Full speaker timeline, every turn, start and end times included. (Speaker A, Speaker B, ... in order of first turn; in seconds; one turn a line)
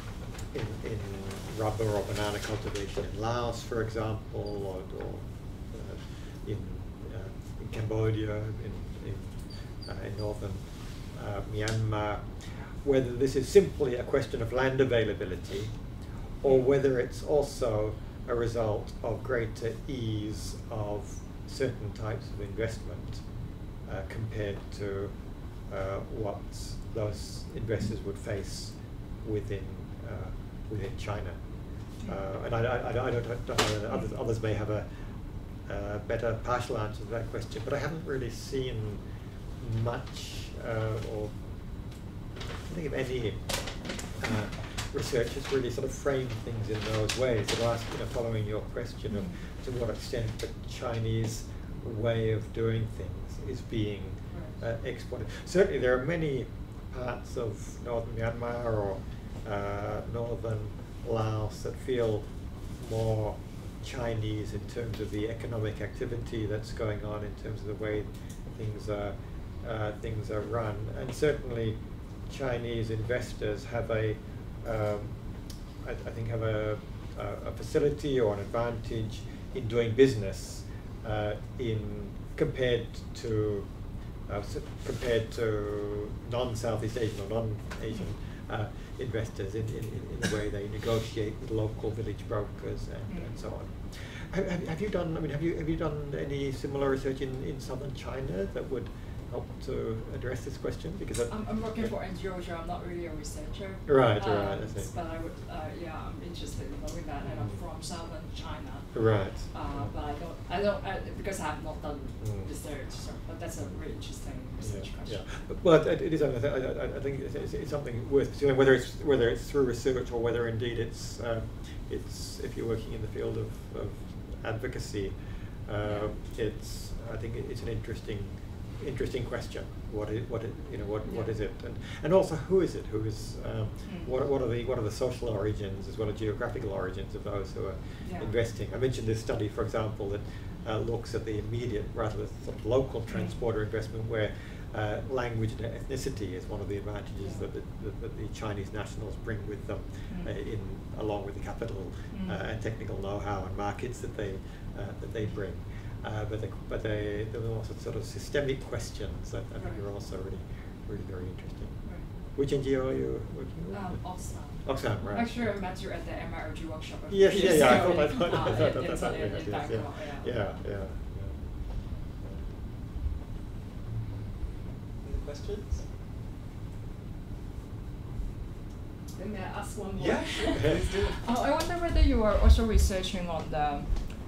Speaker A: 0.5-12.2
Speaker A: 12.8-15.7
Speaker A: 16.4-23.2
Speaker A: 23.9-25.1
Speaker A: 25.7-31.4
Speaker A: 32.1-34.9
Speaker A: 35.7-39.0
Speaker A: 39.6-41.3
Speaker A: 42.6-43.4
Speaker A: 44.2-62.2
Speaker B: 49.1-49.4
Speaker B: 54.3-54.6
Speaker A: 62.8-75.2
Speaker A: 75.8-83.7
Speaker A: 84.3-101.9
Speaker B: 93.1-93.4
Speaker B: 101.3-109.0
Speaker A: 103.9-104.9
Speaker A: 107.2-107.6
Speaker A: 108.9-109.9
Speaker B: 109.5-115.3
Speaker A: 112.2-112.5
Speaker A: 114.6-125.2
Speaker A: 125.7-161.8
Speaker B: 125.8-126.1
Speaker B: 131.1-131.3
Speaker B: 133.8-134.1
Speaker B: 138.0-138.3
Speaker B: 143.1-143.4
Speaker B: 147.2-147.4
Speaker B: 152.1-152.4
Speaker B: 159.6-159.8
Speaker A: 162.3-164.0
Speaker B: 163.7-170.4
Speaker A: 164.6-165.5
Speaker A: 167.1-171.3
Speaker A: 172.2-172.5
Speaker C: 175.0-175.8
Speaker B: 179.2-183.9
Speaker C: 180.0-181.2